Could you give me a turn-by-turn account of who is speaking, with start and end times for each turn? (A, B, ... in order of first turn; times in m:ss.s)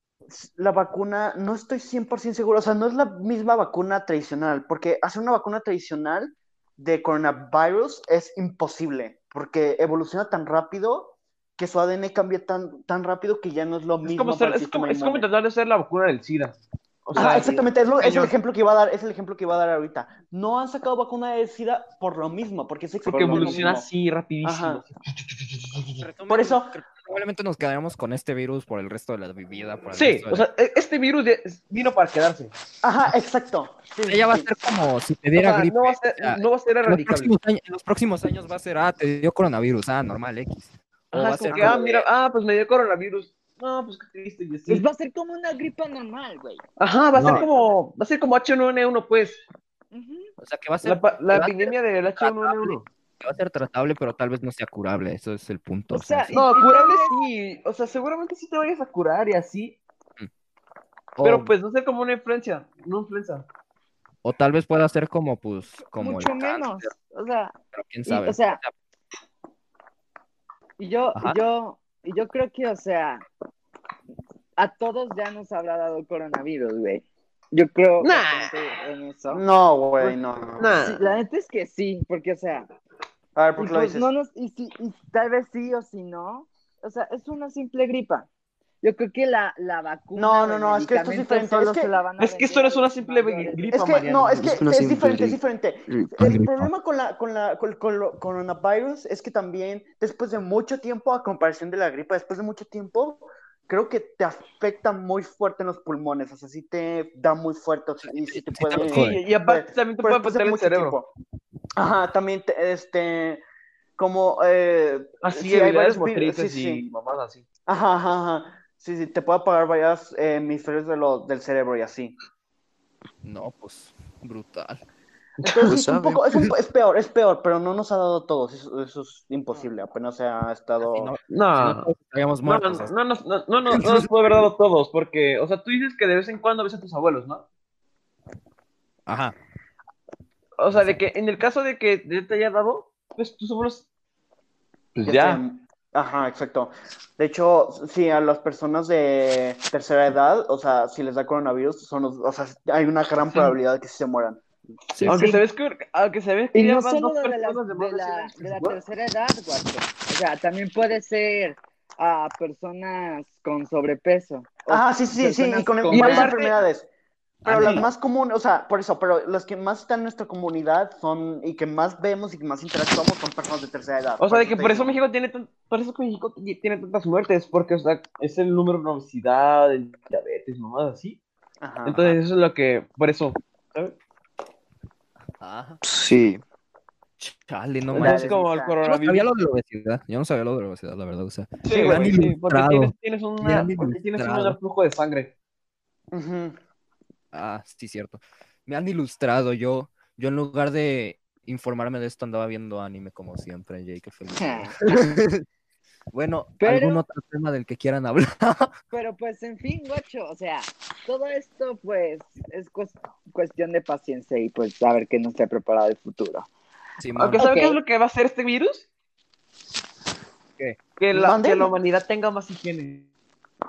0:00.3-0:15.3 A
0:14.0-0:18.3 B
0:17.2-0:23.9 A
0:23.0-0:26.1 B
0:23.4-0:23.7 C
0:24.4-0:24.8 A
0:26.0-0:30.4 D
0:26.3-0:26.8 A
0:29.9-0:32.5 B
0:32.8-0:34.5 A
0:34.1-0:41.8 D
0:35.4-0:37.3 B
0:41.1-0:44.9 B
0:41.4-0:42.0 C
0:44.7-0:46.6 C
0:46.8-0:49.4 B
0:47.2-0:47.4 D
0:47.2-0:47.7 C
0:49.9-0:50.3 C
0:50.4-0:56.4 D
0:50.8-0:52.9 B
0:55.9-0:57.2 C
0:56.3-0:59.8 B
1:01.2-1:01.5 D
1:01.2-1:03.5 B
1:04.2-1:06.9 D
1:05.9-1:08.6 C
1:07.7-1:08.7 D
1:10.8-1:13.2 C
1:14.6-1:19.4 C
1:18.0-1:18.5 B
1:19.3-1:20.8 A
1:20.0-1:21.1 B
1:20.8-1:22.7 C
1:23.4-1:24.1 A
1:23.6-1:28.3 C
1:28.8-1:34.2 C
1:30.2-1:31.9 A
1:32.2-1:34.6 B
1:33.7-1:51.1 A
1:34.4-1:36.5 E
1:36.2-1:36.6 D
1:48.1-1:49.2 D
1:48.7-1:51.0 B
1:51.8-1:53.4 A
1:54.0-1:56.8 A
1:55.2-1:57.4 B
1:57.7-2:02.2 A
2:03.2-2:04.8 D
2:05.4-2:05.8 B
2:05.4-2:11.1 A
2:05.6-2:06.5 E
2:10.8-2:12.9 D
2:11.3-2:11.9 B
2:12.4-2:17.4 B
2:13.7-2:14.1 D
2:19.1-2:19.4 D
2:20.6-2:23.9 B
2:20.7-2:21.0 D
2:25.0-2:25.4 B
2:25.1-2:34.4 A
2:35.0-2:35.2 D
2:35.0-2:38.8 B
2:35.1-2:35.4 C
2:36.5-2:46.4 C
2:44.7-2:46.9 A
2:45.9-2:46.6 B
2:47.4-2:47.9 D
2:47.4-2:55.0 A
2:54.2-3:01.2 B
3:01.6-3:02.2 A
3:01.8-3:04.0 B
3:05.4-3:05.8 D
3:05.8-3:06.4 E
3:07.2-3:14.6 D
3:07.9-3:09.3 B
3:07.9-3:08.8 A
3:11.6-3:15.3 B
3:11.7-3:12.2 A
3:16.1-3:16.6 A
3:17.3-3:25.4 D
3:24.4-3:24.8 C
3:26.1-3:28.7 D
3:26.6-3:27.0 C
3:28.9-3:36.5 C
3:37.0-3:37.4 D
3:37.2-3:38.9 B
3:37.4-3:37.8 C
3:41.0-3:43.1 B
3:41.1-3:41.7 A